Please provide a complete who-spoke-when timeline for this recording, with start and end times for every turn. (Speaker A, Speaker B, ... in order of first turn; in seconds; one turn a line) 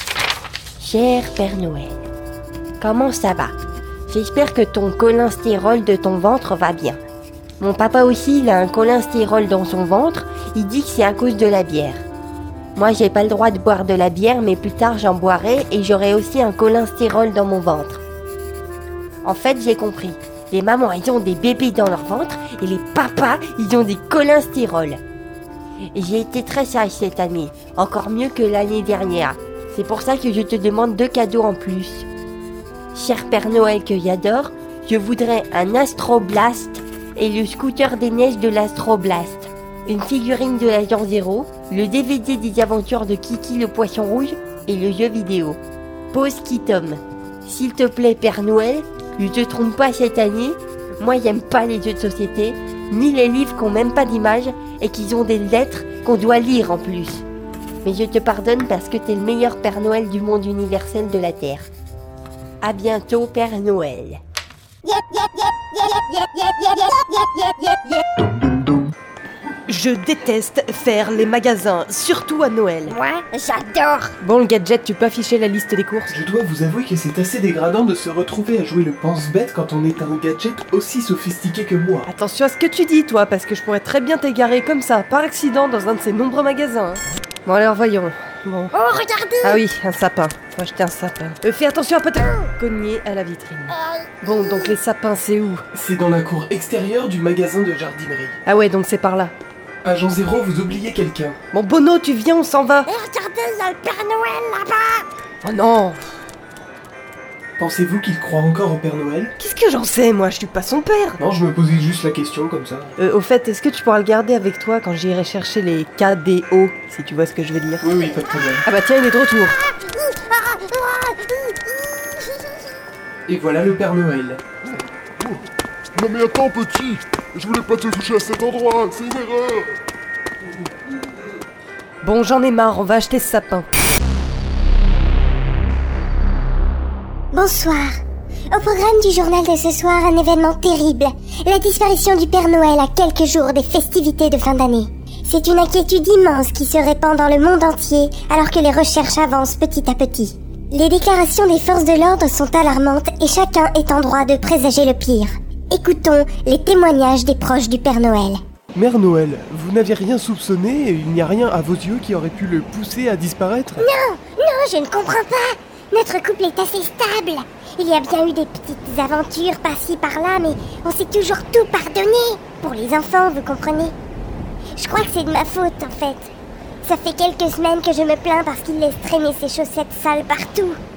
Speaker A: 0.8-2.0
Speaker A: 2.8-3.5
Speaker A: 4.1-7.0
Speaker A: 7.6-12.0
Speaker A: 12.7-18.0
Speaker A: 19.2-25.0
Speaker A: 25.9-32.1
Speaker A: 32.9-45.6
Speaker A: 46.1-57.2
Speaker A: 57.8-61.7
Speaker A: 62.6-64.2
Speaker A: 66.1-67.6
Speaker B: 69.7-73.0
Speaker C: 72.9-74.1
Speaker B: 74.2-76.1
Speaker D: 76.1-82.1
Speaker B: 82.1-88.7
Speaker C: 88.8-89.5
Speaker B: 89.4-95.6
Speaker D: 95.7-98.4
Speaker B: 98.5-99.3
Speaker D: 99.8-101.4
Speaker B: 101.5-102.9
Speaker A: 102.9-105.0
Speaker B: 105.4-106.0
Speaker D: 107.6-109.3
Speaker B: 109.4-111.2
Speaker D: 111.2-112.9
Speaker B: 113.0-117.8
Speaker D: 117.8-118.7
Speaker B: 118.7-119.6
Speaker A: 120.8-121.0
Speaker D: 123.3-124.4
Speaker E: 125.9-129.7
Speaker B: 132.0-133.7
Speaker C: 137.3-137.9
Speaker C: 138.5-158.4
Speaker D: 158.7-163.9
Speaker C: 163.8-173.9
Speaker C: 174.8-176.3
Speaker C: 176.8-180.8